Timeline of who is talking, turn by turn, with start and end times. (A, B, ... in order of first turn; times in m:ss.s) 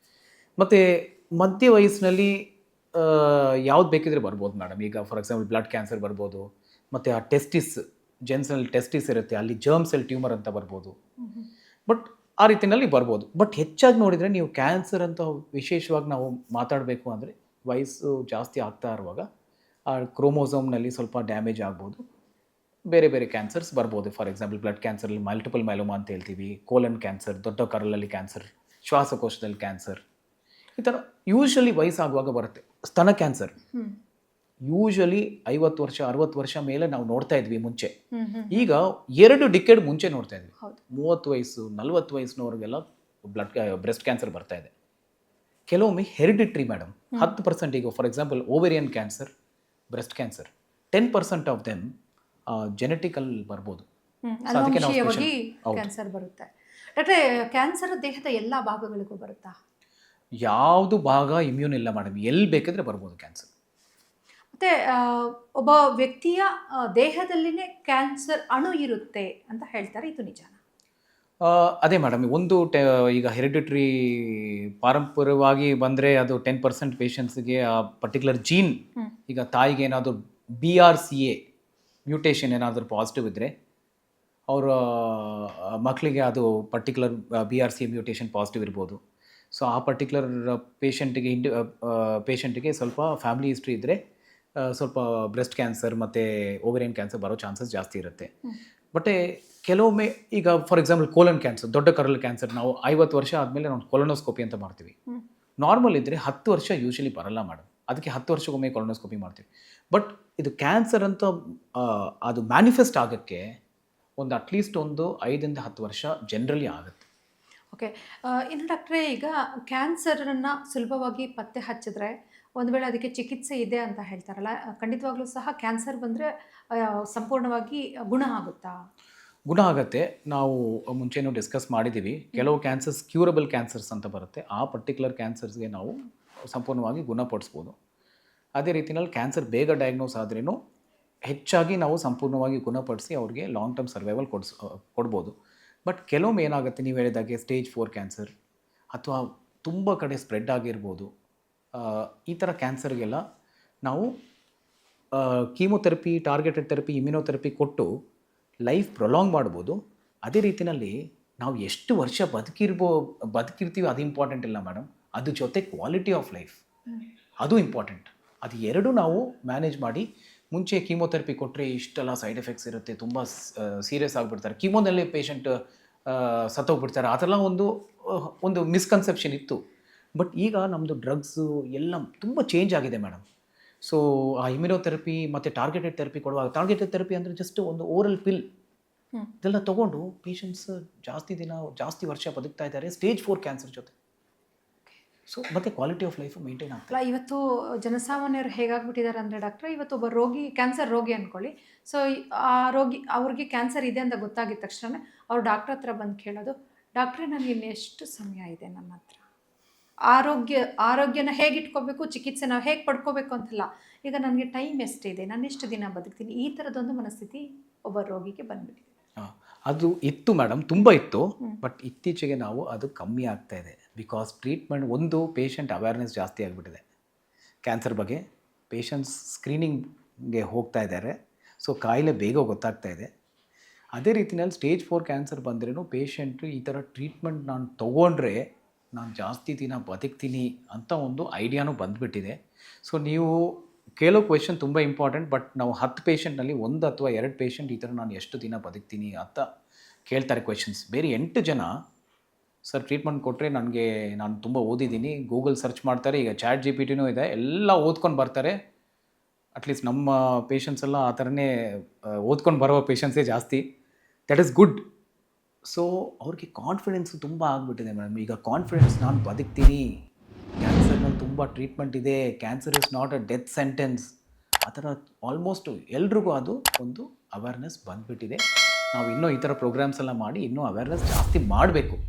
0:00.6-0:10.9 A
0:11.2-0:11.5 B
0:11.9-0:19.2 A
0:19.9-0:22.0 A
0:22.9-0:30.0 A
0:30.8-0:33.5 A
0:34.6-0:37.9 A
0:38.1-0:38.7 B
0:38.5-0:44.7 A
0:45.7-0:49.3 A
0:49.9-0:51.9 A
0:52.5-0:53.8 A
0:54.2-0:59.5 B
0:54.5-0:55.9 A
1:00.4-1:03.5 A
1:04.5-1:10.6 B
1:11.4-1:21.4 A
1:22.0-1:23.5 A
1:24.5-1:29.0 A
1:29.5-1:34.0 A
1:34.6-1:38.3 A
1:38.9-1:44.9 A
1:45.6-1:53.5 A
1:54.2-1:57.0 A
1:57.7-2:08.7 B
2:09.5-2:16.0 A
2:16.5-2:17.7 A
2:18.6-2:20.6 A
2:21.3-2:25.3 A
2:25.8-2:28.3 A
2:28.9-2:31.1 A
2:31.7-2:33.2 A
2:33.8-2:34.1 A
2:35.1-2:37.9 A
2:38.6-2:46.6 A
2:47.4-2:59.6 A
3:00.2-3:03.2 A
3:03.8-3:08.4 A
3:09.4-3:13.9 A
3:15.3-3:16.9 A
3:16.9-3:29.2 B
3:30.1-3:38.9 B
3:39.2-3:46.8 A
3:47.6-3:53.1 A
3:53.9-3:58.4 A
3:58.9-4:09.4 A
4:10.1-4:11.7 A
4:12.6-4:18.5 A
4:19.6-4:23.6 A
4:24.3-4:24.8 A
4:25.7-4:29.8 A
4:30.6-4:34.1 A
4:34.6-4:38.4 A
4:38.9-4:42.0 A